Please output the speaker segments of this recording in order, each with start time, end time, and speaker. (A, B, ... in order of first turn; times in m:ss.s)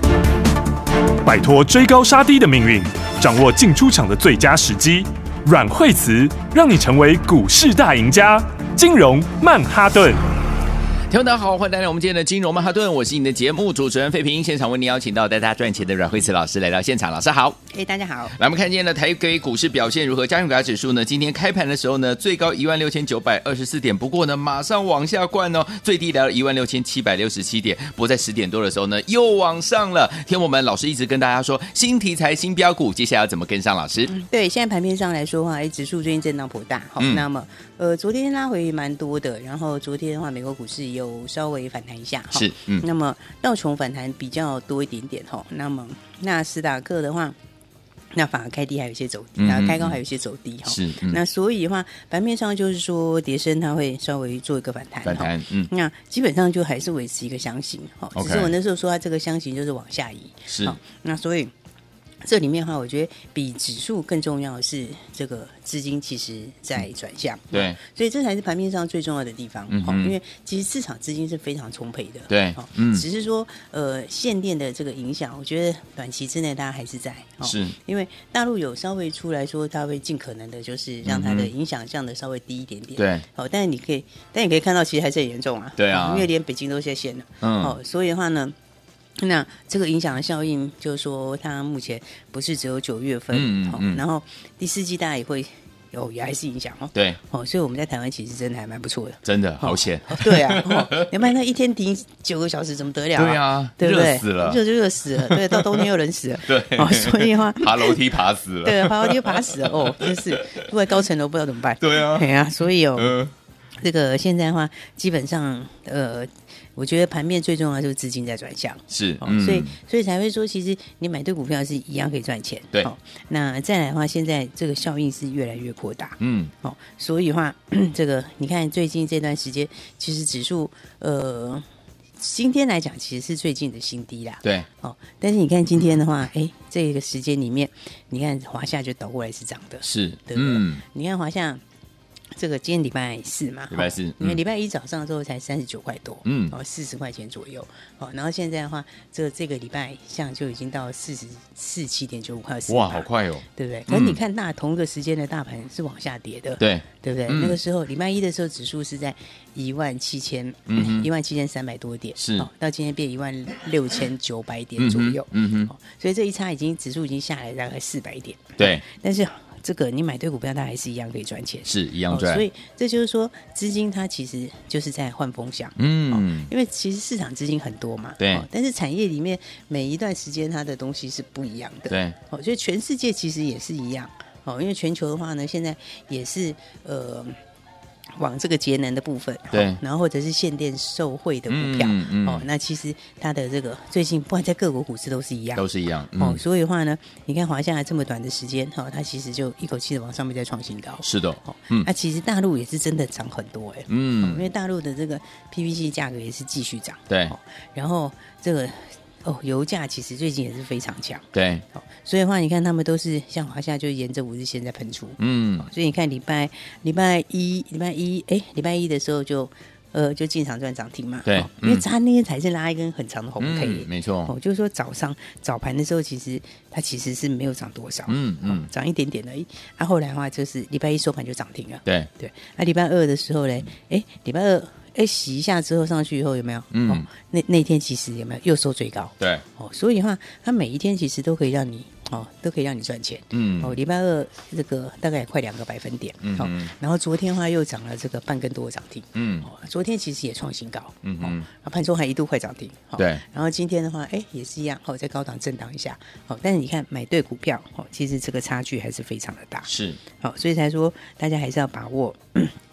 0:01.2-0:10.2 A
0:11.1-0:17.6 B
0:17.7-0:18.3 C
0:18.3-0:34.1 B
0:34.1-0:47.3 C
0:37.0-0:37.2 B
0:42.3-0:42.8 B
0:48.1-1:01.5 C
0:49.4-0:50.0 B
0:50.7-0:51.2 B
0:55.0-0:55.7 B
0:58.1-0:58.5 B
1:00.5-1:00.8 B
1:02.2-1:28.5 C
1:09.7-1:10.1 B
1:12.3-1:13.0 B
1:17.4-1:17.7 B
1:21.0-1:21.5 B
1:23.0-1:23.2 B
1:25.8-1:26.3 B
1:27.4-1:27.8 B
1:29.2-1:48.0 C
1:33.3-1:34.0 B
1:39.2-1:41.2 B
1:43.1-1:44.6 B
1:45.2-1:45.8 B
1:46.4-1:50.6 B
1:48.6-1:53.1 C
1:51.8-1:52.3 B
1:53.0-1:53.3 B
1:53.8-2:11.6 C
1:58.9-1:59.7 B
2:06.2-2:06.5 B
2:12.2-2:21.6 C
2:19.8-2:20.8 B
2:22.3-3:07.4 C
2:23.7-2:24.4 B
2:26.2-2:26.5 B
2:32.7-2:34.2 B
2:36.6-2:37.6 B
2:40.7-2:41.1 B
2:42.2-2:42.5 B
2:44.8-2:45.7 B
2:51.6-2:52.4 B
2:55.8-2:56.5 B
2:58.2-2:58.4 B
3:01.9-3:02.2 B
3:08.2-3:15.6 C
3:09.5-3:09.8 B
3:11.5-3:12.4 B
3:15.6-3:16.4 B
3:16.2-4:19.7 C
3:21.0-3:21.9 B
3:23.9-3:24.4 B
3:27.1-3:27.3 B
3:31.3-3:31.6 B
3:35.2-3:35.7 B
3:41.2-3:41.8 B
3:43.4-3:44.3 B
3:48.1-3:48.7 B
3:56.7-3:57.1 B
4:03.3-4:03.7 B
4:06.2-4:06.7 B
4:09.1-4:09.5 B
4:11.0-4:11.4 B
4:13.0-4:13.2 B
4:19.6-4:20.0 B
4:20.2-4:22.5 C